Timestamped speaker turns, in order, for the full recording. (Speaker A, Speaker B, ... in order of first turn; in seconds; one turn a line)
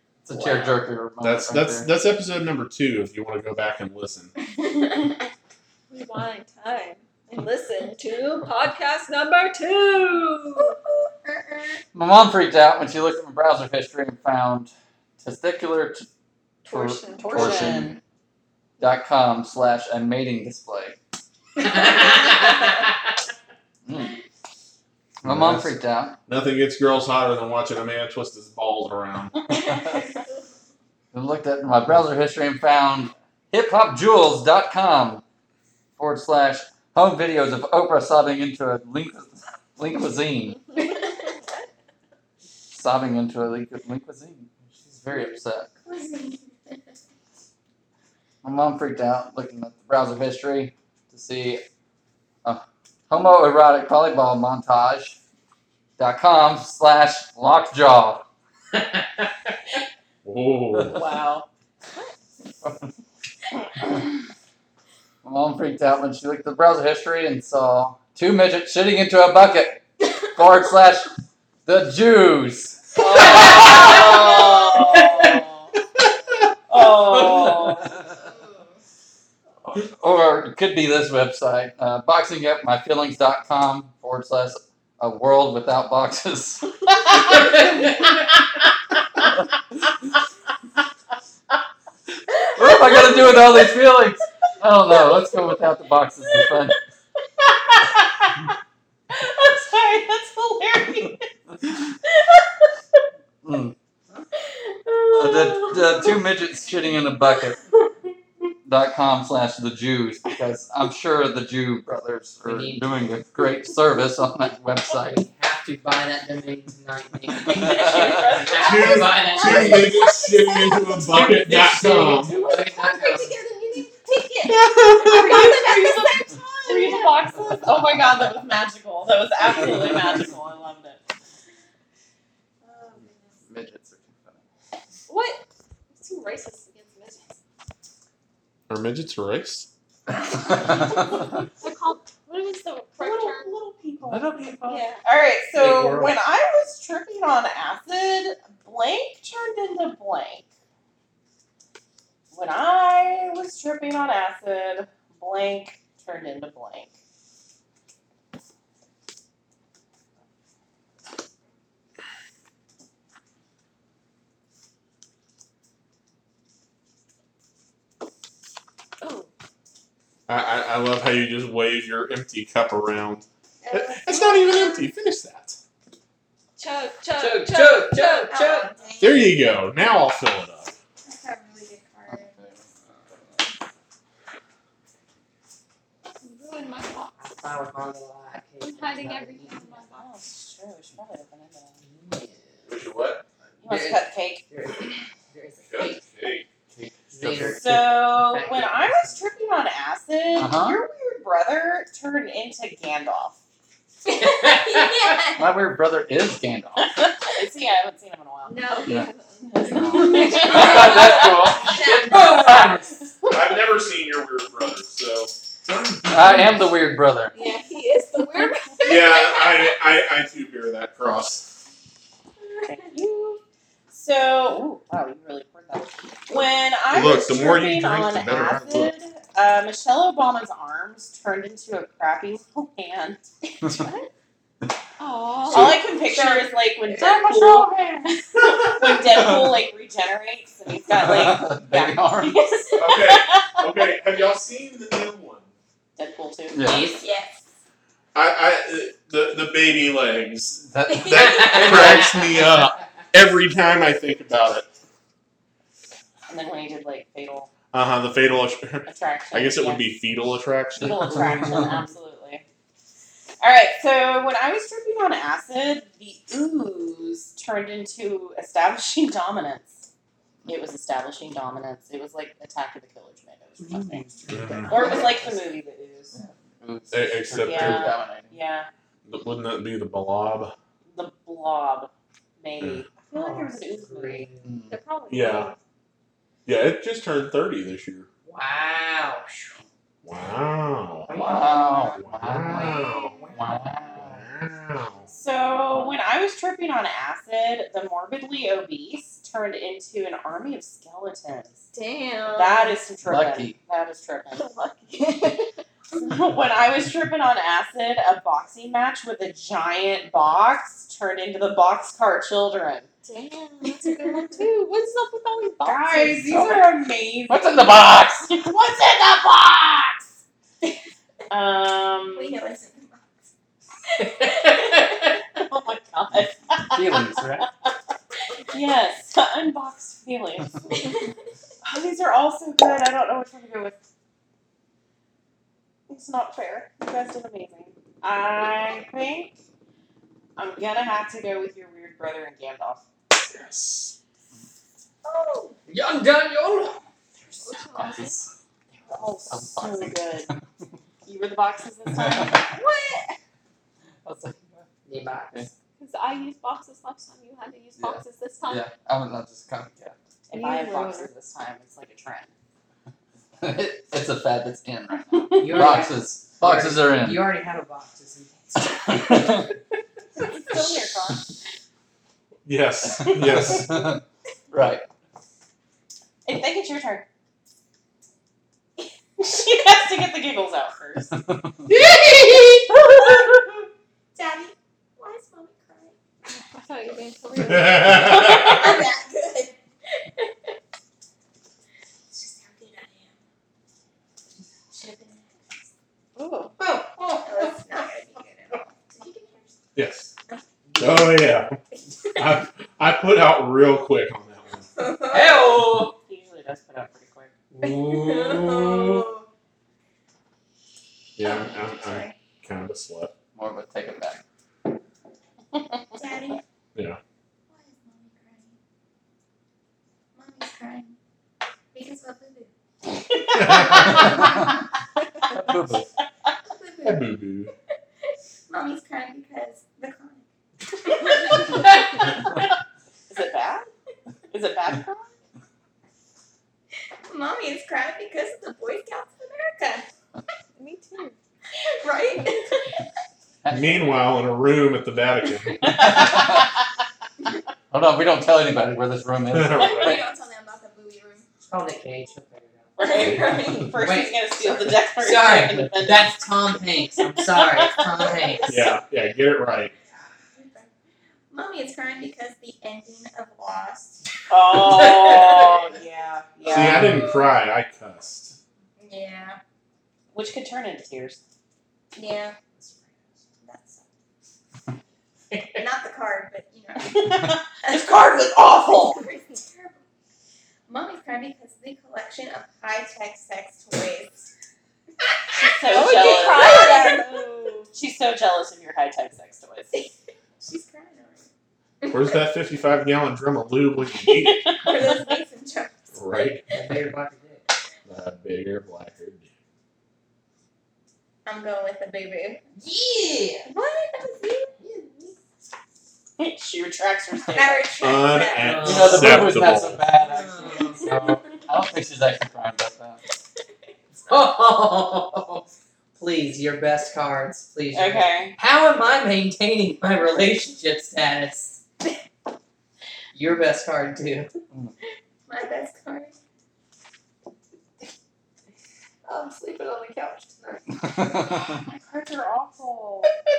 Speaker A: 0.2-1.9
Speaker B: 1.2-4.3
Speaker C: 4.5-5.2
Speaker D: 5.9-10.8
Speaker C: 10.6-11.8
Speaker A: 11.9-16.1
Speaker D: 16.6-17.7
Speaker A: 16.7-17.9
Speaker E: 17.2-18.0
Speaker A: 18.8-21.0
Speaker F: 21.6-22.9
Speaker A: 23.9-24.1
Speaker A: 25.2-26.2
Speaker B: 25.2-25.7
Speaker B: 26.3-29.4
Speaker A: 31.1-35.2
Speaker A: 36.0-40.6
Speaker A: 42.7-45.7
Speaker C: 45.8-46.8
Speaker A: 48.4-51.6
Speaker A: 52.4-55.2
Speaker A: 56.0-58.2
Speaker F: 58.7-59.3
Speaker B: 60.2-61.0
Speaker E: 60.9-61.5
Speaker A: 62.6-62.9
Speaker A: 65.2-71.1
Speaker A: 71.6-74.1
Speaker F: 73.1-75.4
Speaker E: 73.3-75.5
Speaker C: 74.0-74.8
Speaker E: 76.7-77.8
Speaker A: 77.3-77.9
Speaker A: 79.7-86.7
Speaker F: 87.2-88.3
Speaker A: 92.4-96.8
Speaker E: 99.1-101.2
Speaker A: 103.4-103.7
Speaker C: 104.8-106.1
Speaker A: 105.1-107.6
Speaker A: 108.6-115.3
Speaker F: 112.4-113.0
Speaker F: 115.1-120.1
Speaker A: 117.6-118.2
Speaker E: 117.6-119.0
Speaker B: 118.6-122.3
Speaker D: 119.4-120.8
Speaker F: 121.0-123.4
Speaker D: 122.3-127.4
Speaker B: 124.5-125.5
Speaker E: 125.0-131.0
Speaker D: 132.7-133.2
Speaker A: 133.4-134.4
Speaker D: 135.1-135.4
Speaker D: 135.9-137.3
Speaker B: 138.7-139.7
Speaker D: 140.5-143.6
Speaker E: 143.0-150.5
Speaker F: 144.1-144.8
Speaker A: 144.1-144.4
Speaker D: 144.7-145.0
Speaker F: 145.6-146.2
Speaker E: 152.3-156.9
Speaker D: 169.0-169.3
Speaker B: 170.3-175.6
Speaker C: 173.6-174.9
Speaker D: 176.6-178.3
Speaker F: 177.1-178.7
Speaker C: 178.2-179.3
Speaker B: 179.0-180.7
Speaker C: 181.0-182.4
Speaker A: 182.1-182.6
Speaker D: 186.2-187.2
Speaker F: 187.1-190.0
Speaker D: 188.6-190.1
Speaker E: 190.0-191.8
Speaker F: 191.8-192.7
Speaker B: 192.7-193.2
Speaker E: 193.6-194.4
Speaker F: 193.6-196.0
Speaker B: 195.7-196.9
Speaker A: 196.8-197.8
Speaker F: 197.1-199.4
Speaker E: 197.6-203.3
Speaker A: 200.3-200.8
Speaker C: 204.0-205.5
Speaker F: 204.1-205.2
Speaker A: 205.3-206.9
Speaker E: 207.3-208.7
Speaker D: 208.4-211.1
Speaker E: 209.5-211.1
Speaker A: 209.8-212.6
Speaker C: 210.0-210.9
Speaker C: 211.6-212.6
Speaker F: 211.7-213.0
Speaker B: 213.3-216.2
Speaker A: 216.1-217.3
Speaker D: 217.3-219.4
Speaker B: 218.8-221.5
Speaker E: 222.6-233.3
Speaker B: 226.9-228.9
Speaker D: 233.8-234.0
Speaker D: 235.0-235.8
Speaker E: 235.5-243.6
Speaker B: 235.5-235.8
Speaker C: 236.0-237.2
Speaker A: 241.0-242.4
Speaker B: 242.8-245.5
Speaker E: 246.0-246.6
Speaker A: 246.5-246.8
Speaker F: 246.6-247.0
Speaker C: 246.9-247.4
Speaker B: 248.1-254.7
Speaker A: 250.6-251.2
Speaker C: 250.9-251.8
Speaker F: 251.2-252.4
Speaker E: 256.3-257.5
Speaker B: 257.7-261.2
Speaker E: 258.9-259.9
Speaker E: 260.8-262.4
Speaker A: 261.0-261.8
Speaker E: 263.4-269.8
Speaker E: 270.4-274.1
Speaker F: 273.7-275.4
Speaker A: 273.8-274.1
Speaker B: 274.3-274.8
Speaker E: 274.7-276.1
Speaker A: 276.1-278.3
Speaker B: 276.9-277.9
Speaker E: 277.4-278.7
Speaker B: 279.1-280.5
Speaker E: 280.9-284.3
Speaker F: 283.1-284.5
Speaker A: 284.4-284.8
Speaker D: 284.7-285.6
Speaker B: 285.1-285.5
Speaker B: 286.4-288.1
Speaker F: 288.2-289.6
Speaker B: 290.0-291.1
Speaker F: 291.1-294.2
Speaker A: 291.1-292.7
Speaker B: 292.0-293.2
Speaker A: 293.4-294.0
Speaker B: 294.0-295.1
Speaker E: 295.1-301.6
Speaker D: 301.7-302.8
Speaker E: 302.3-304.5
Speaker A: 303.1-303.6
Speaker D: 304.4-305.5
Speaker E: 305.9-312.9
Speaker D: 313.0-316.2
Speaker E: 315.6-319.7
Speaker A: 317.3-318.4
Speaker E: 321.3-322.4
Speaker C: 322.1-323.1
Speaker F: 324.0-325.1
Speaker C: 324.1-324.4
Speaker E: 325.3-327.2
Speaker A: 326.7-327.4
Speaker E: 328.5-330.8
Speaker C: 330.7-331.1
Speaker E: 331.6-333.8
Speaker E: 335.9-339.4
Speaker E: 340.4-342.8
Speaker B: 343.2-343.9
Speaker D: 345.1-345.5
Speaker F: 345.7-346.8
Speaker D: 347.4-348.2
Speaker A: 347.7-348.3
Speaker E: 348.9-350.3
Speaker A: 349.2-350.4
Speaker E: 351.0-352.6
Speaker A: 351.9-352.4
Speaker D: 352.5-353.1
Speaker A: 354.0-354.7
Speaker F: 354.8-355.5
Speaker D: 355.8-358.6
Speaker A: 357.8-360.0
Speaker E: 360.3-362.3
Speaker D: 360.3-361.1
Speaker A: 363.4-367.3
Speaker E: 365.3-365.7
Speaker F: 365.4-369.4
Speaker A: 368.9-369.5
Speaker E: 370.3-371.2
Speaker B: 372.4-373.7
Speaker A: 372.9-374.8
Speaker E: 376.2-377.1
Speaker E: 379.2-381.1
Speaker F: 381.7-382.8
Speaker C: 383.0-383.3
Speaker C: 384.1-385.9
Speaker D: 386.3-388.2
Speaker B: 387.4-388.5
Speaker C: 388.0-390.2
Speaker E: 388.1-388.6
Speaker C: 392.1-393.2
Speaker C: 394.7-395.5
Speaker E: 396.1-396.5
Speaker F: 396.6-397.6
Speaker C: 397.2-399.5
Speaker B: 399.8-400.1
Speaker F: 400.7-401.1
Speaker B: 400.8-401.6
Speaker C: 402.0-402.3
Speaker B: 402.1-404.7
Speaker C: 404.8-405.6
Speaker F: 405.1-405.9
Speaker E: 405.8-407.3
Speaker F: 407.5-409.0
Speaker C: 407.6-409.3
Speaker B: 408.2-408.8
Speaker B: 411.2-413.1
Speaker C: 411.2-412.1
Speaker A: 413.3-414.2
Speaker C: 415.9-416.4
Speaker C: 417.5-418.6
Speaker C: 420.1-420.9
Speaker C: 421.7-422.5
Speaker B: 423.3-424.2
Speaker C: 423.6-424.1
Speaker A: 425.3-425.9
Speaker C: 426.5-427.1
Speaker B: 426.8-427.5
Speaker C: 428.5-430.2
Speaker C: 430.8-431.6
Speaker E: 433.1-433.7
Speaker E: 434.3-435.1
Speaker C: 437.0-439.9
Speaker D: 440.6-441.1
Speaker C: 441.6-442.7
Speaker A: 443.4-443.8
Speaker B: 443.5-445.9
Speaker A: 445.8-446.4
Speaker A: 447.7-449.9
Speaker B: 449.3-450.0
Speaker C: 449.6-451.2
Speaker F: 451.4-458.6
Speaker E: 452.8-456.3
Speaker C: 452.8-453.8
Speaker E: 457.0-458.3
Speaker B: 458.5-459.7
Speaker C: 460.3-460.7
Speaker C: 461.3-464.0
Speaker E: 464.3-467.0
Speaker F: 464.6-465.6
Speaker B: 466.4-468.4
Speaker C: 466.5-467.2
Speaker C: 468.8-469.4
Speaker E: 470.1-471.2
Speaker C: 471.9-472.3
Speaker F: 472.6-472.9
Speaker C: 473.4-473.8
Speaker F: 475.3-475.6
Speaker C: 475.6-477.9
Speaker E: 476.9-479.0
Speaker C: 478.6-479.8
Speaker C: 480.7-484.3
Speaker C: 485.3-487.2
Speaker E: 485.3-487.0
Speaker D: 485.7-487.7
Speaker E: 487.7-489.7
Speaker C: 489.7-491.3
Speaker C: 491.8-492.2
Speaker B: 491.9-494.5
Speaker E: 494.4-494.7
Speaker C: 494.6-495.9
Speaker B: 495.9-496.4
Speaker F: 496.5-497.4
Speaker B: 497.9-499.3
Speaker C: 501.2-502.4
Speaker F: 502.6-503.5
Speaker C: 503.4-505.0
Speaker F: 504.6-505.1
Speaker E: 506.2-507.7
Speaker C: 507.3-509.1
Speaker B: 507.8-509.8
Speaker F: 508.3-511.2
Speaker A: 508.6-513.0
Speaker C: 510.2-511.1
Speaker F: 514.0-521.6
Speaker E: 517.7-518.4
Speaker F: 523.1-524.3
Speaker C: 525.3-526.1
Speaker C: 529.1-530.6
Speaker A: 530.8-531.5
Speaker E: 531.5-533.1